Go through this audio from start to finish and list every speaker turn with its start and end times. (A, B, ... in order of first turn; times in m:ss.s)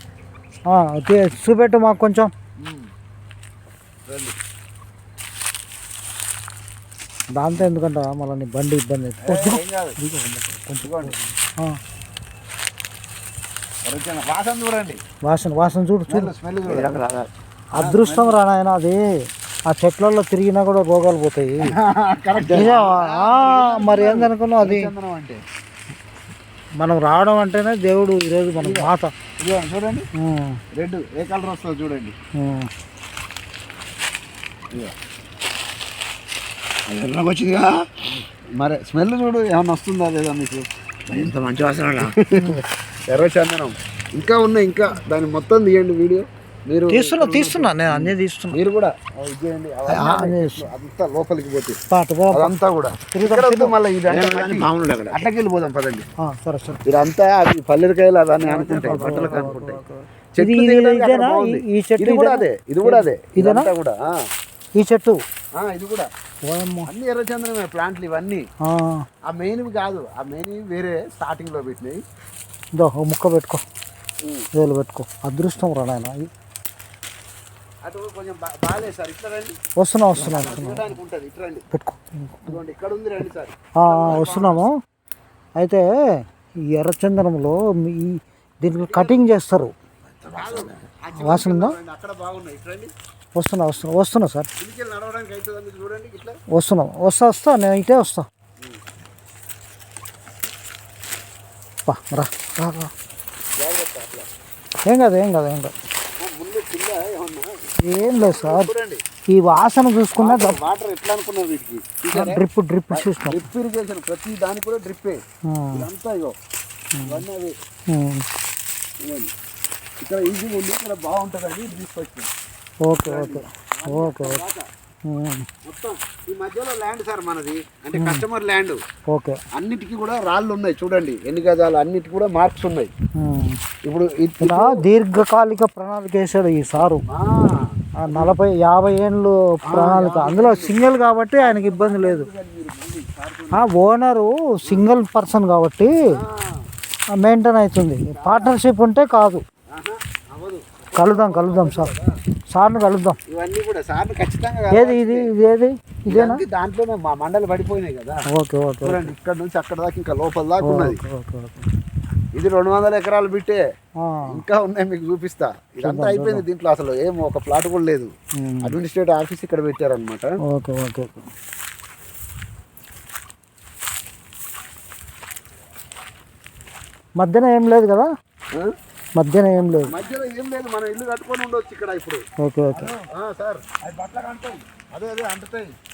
0:00.7-0:02.3 A
0:02.6-0:02.9 B
0:04.0-0:04.4 B
0:07.4-0:11.8 A
0:09.2-0:10.0 B
0:10.8-0:11.2 B
0:13.9-0:15.0 B
0:15.2-0:16.3 A
0:16.1-0:17.0 B
0:16.6-0:17.3 C
0:17.8-0:19.0 A
0:17.8-0:18.4 B
0:19.7-0:21.6 A
0:21.7-0:25.4 B
0:22.4-0:24.9 A
0:26.8-0:29.1 A
0:28.6-0:30.1 B
0:30.2-0:30.6 A
0:30.7-0:32.1 B
0:32.4-0:32.7 A
0:36.9-0:41.3 B
0:37.2-0:37.6 C
0:41.1-0:42.1 C
0:42.0-0:51.8 B
0:46.9-0:48.6 A
0:49.9-0:50.7 A
0:51.9-0:52.5 A
0:52.3-0:56.1 B
0:53.1-0:53.7 A
0:54.1-0:55.3 C
0:56.2-0:56.8 A
0:56.9-0:59.8 B
0:58.4-0:59.8 A
0:58.6-1:00.0 C
1:00.4-1:04.0 B
1:00.4-1:03.6 A
1:04.8-1:05.2 A
1:05.6-1:06.1 B
1:06.5-1:06.9 A
1:06.8-1:08.4 B
1:08.6-1:09.0 A
1:09.3-1:12.0 B
1:12.7-1:13.6 A
1:14.5-1:16.2 A
1:17.8-1:19.6 B
1:19.8-1:20.9 A
1:20.2-1:21.6 B
1:21.7-1:22.6 A
1:22.5-1:24.6 B
1:23.8-1:24.7 A
1:25.6-1:25.8 A
1:26.7-1:29.7 A
1:28.9-1:29.2 B
1:30.2-1:30.9 C
1:30.3-1:32.9 B
1:31.1-1:31.7 A
1:33.4-1:34.5 A
1:34.6-1:36.4 B
1:36.5-1:38.2 A
1:41.9-1:42.9 A
1:43.6-1:44.3 B
1:44.9-1:45.7 A
1:46.2-1:47.5 B
1:47.8-1:48.7 A
1:48.1-1:49.0 B
1:49.3-1:50.6 A
1:50.2-1:52.4 B
1:52.1-1:53.4 A
1:52.9-1:55.2 B
1:55.5-1:55.8 A
1:55.7-1:56.3 B
1:57.0-1:57.2 A
1:57.0-1:57.5 B
1:57.9-1:58.2 A
1:59.0-1:59.3 B
2:00.0-2:02.3 B
2:02.8-2:04.4 A
2:03.0-2:04.6 B
2:05.0-2:05.4 A
2:05.6-2:08.8 B
2:08.0-2:08.2 A
2:09.1-2:09.4 A
2:09.5-2:12.9 B
2:13.2-2:13.6 A
2:13.8-2:15.2 B
2:14.4-2:17.0 A
2:16.8-2:18.3 B
2:18.0-2:22.3 A
2:19.7-2:20.8 B
2:21.4-2:23.7 B
2:23.5-2:25.9 A
2:26.1-2:26.5 B
2:27.1-2:29.4 A
2:28.1-2:28.6 B
2:29.7-2:32.1 B
2:30.9-2:31.9 A
2:32.5-2:33.2 A
2:33.3-2:35.3 B
2:34.7-2:36.4 A
2:36.1-2:38.2 B
2:38.3-2:39.1 A
2:38.8-2:41.0 B
2:40.6-2:41.7 A
2:42.3-2:43.6 B
2:44.0-2:44.4 A
2:44.2-2:48.1 B
2:45.8-2:46.4 A
2:48.4-2:48.7 A
2:48.6-2:50.3 B
2:50.4-2:51.3 A
2:57.2-2:58.1 A
2:59.2-2:59.9 A
2:59.9-3:02.2 B
3:02.4-3:02.9 A
3:02.7-3:05.7 B